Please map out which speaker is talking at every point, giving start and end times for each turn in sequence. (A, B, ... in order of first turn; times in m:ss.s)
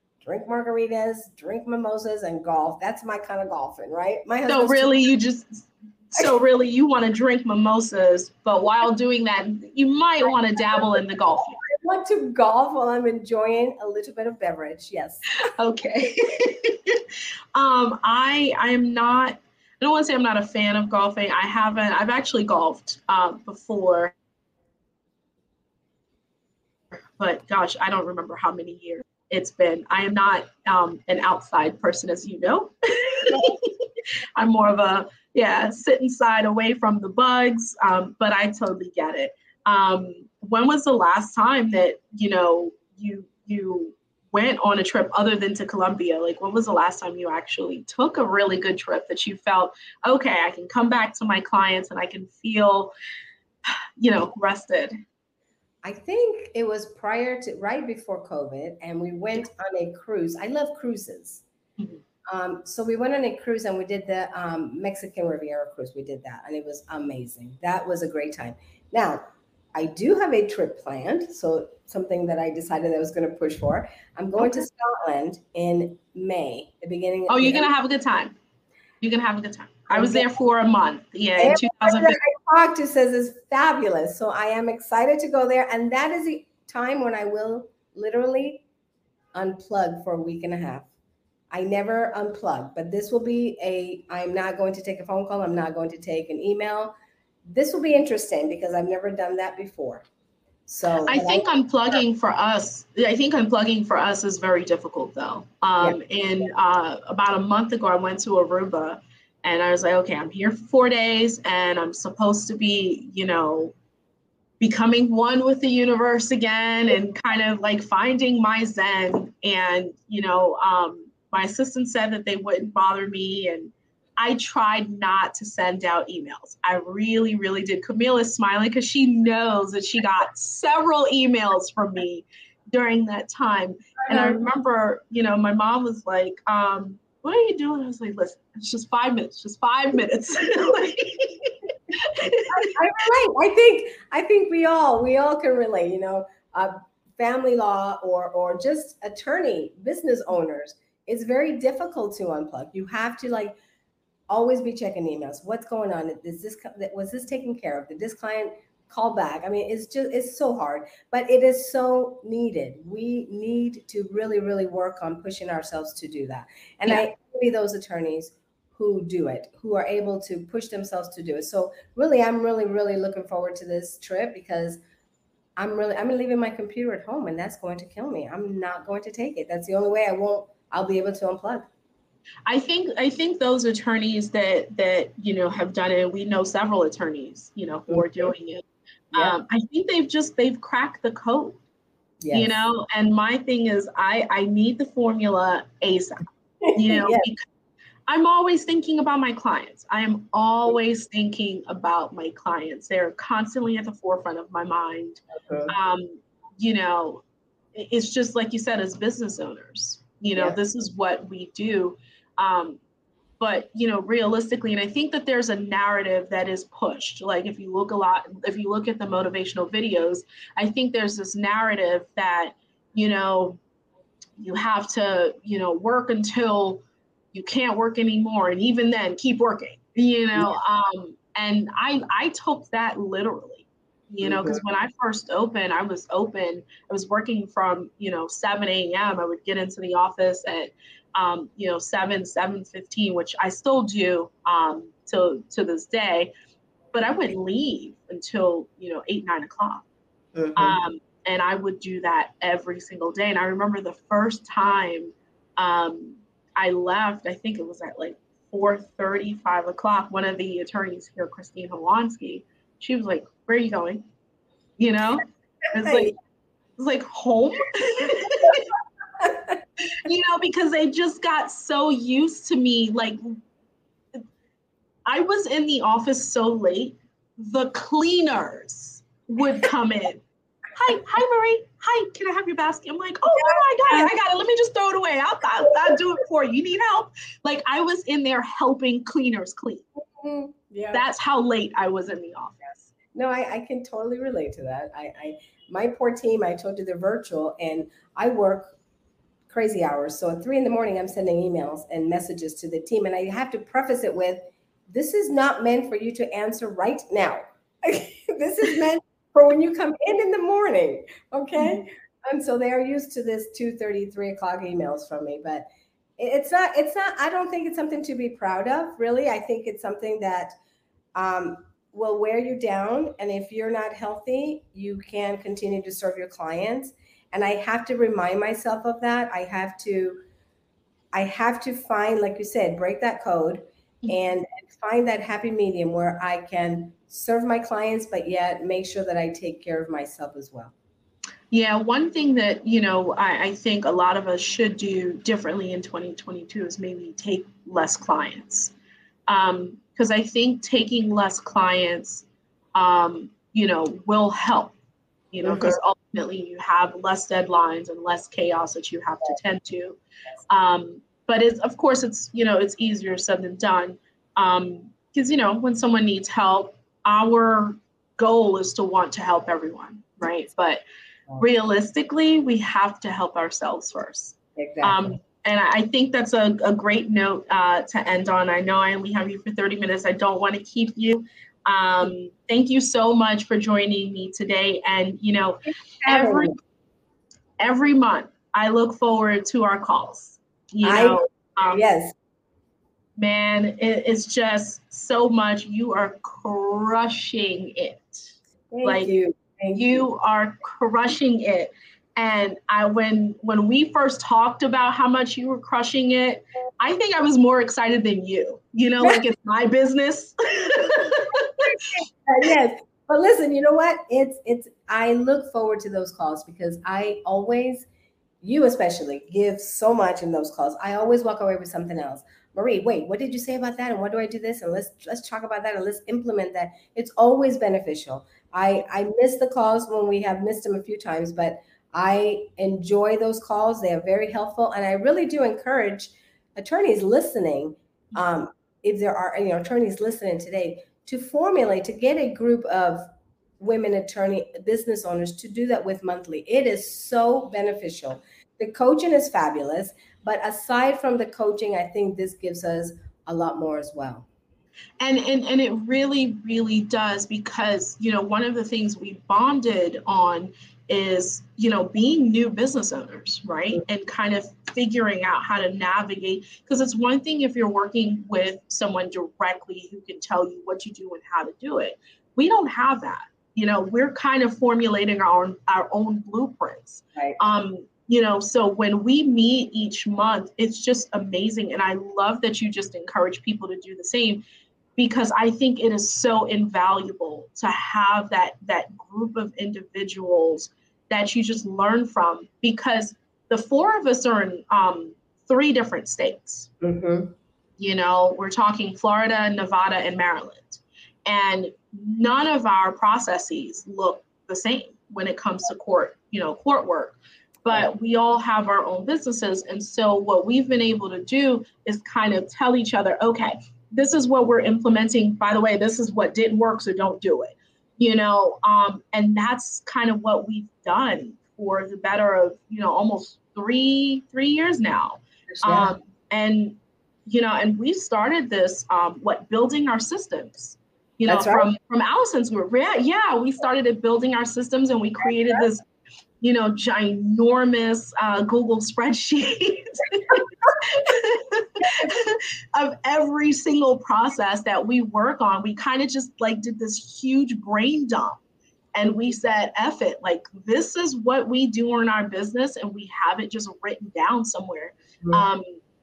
0:00.2-0:04.9 A
0:04.5-0:11.6 B
0:11.7-0:15.4 A
0:15.4-0:17.0 B
0:17.6-0:24.1 B
0:27.2-0:33.8 B
0:34.4-0:52.9 B
0:53.7-0:55.0 B
0:55.8-1:01.4 A
1:02.3-1:09.2 A
1:09.8-1:17.7 A
1:17.3-1:18.4 B
1:19.0-1:22.2 B
1:19.9-1:20.3 A
1:21.4-1:28.6 A
1:29.3-1:30.9 A
1:31.5-1:36.9 A
1:37.5-1:40.0 A
1:40.7-1:41.5 A
1:41.0-1:53.7 B
1:54.6-2:22.7 B
2:14.1-2:14.4 A
2:22.5-2:33.6 A
2:34.3-2:54.8 A
2:55.6-3:01.7 A
3:02.5-3:11.6 B
3:07.9-3:08.3 A
3:12.2-3:12.6 A
3:12.3-3:16.2 B
3:16.6-3:17.3 A
3:16.7-3:17.4 B
3:18.1-3:27.2 B
3:25.4-3:25.7 A
3:27.8-3:32.8 B
3:33.4-3:43.6 B
3:44.4-4:06.3 B
3:54.2-3:54.6 A
4:06.9-4:09.8 B
4:10.4-4:10.8 A
4:10.6-4:24.0 B
4:24.8-4:26.1 B
4:25.8-4:26.1 A
4:26.8-4:28.7 B
4:29.2-4:29.6 A
4:30.0-4:33.4 B
4:35.1-4:49.9 B
4:43.4-4:44.1 A
4:50.1-4:51.0 A
4:50.9-4:52.9 B
4:53.1-4:58.7 A
4:59.5-5:15.6 A
5:16.2-5:20.5 A
5:21.2-5:30.2 A
5:31.1-5:40.7 A
5:41.5-5:48.7 B
5:49.3-5:54.8 B
5:55.3-6:10.8 B
5:55.4-5:55.8 A
6:11.4-6:26.6 B
6:14.6-6:15.1 A
6:25.6-6:26.6 A
6:27.6-6:31.8 B
6:30.8-6:32.2 A
6:33.2-6:38.3 B
6:38.7-6:40.0 A
6:38.8-6:39.1 B
6:39.7-6:51.6 B
6:51.6-6:57.9 A
6:58.4-7:23.1 A
7:23.6-7:34.3 A
7:35.0-8:04.4 B
8:05.0-8:16.7 B
8:16.8-8:17.3 A
8:17.8-8:55.9 B
8:45.5-8:45.9 A
8:51.3-8:51.7 A
8:56.4-9:08.4 B
9:01.9-9:02.1 A
9:09.0-9:15.6 B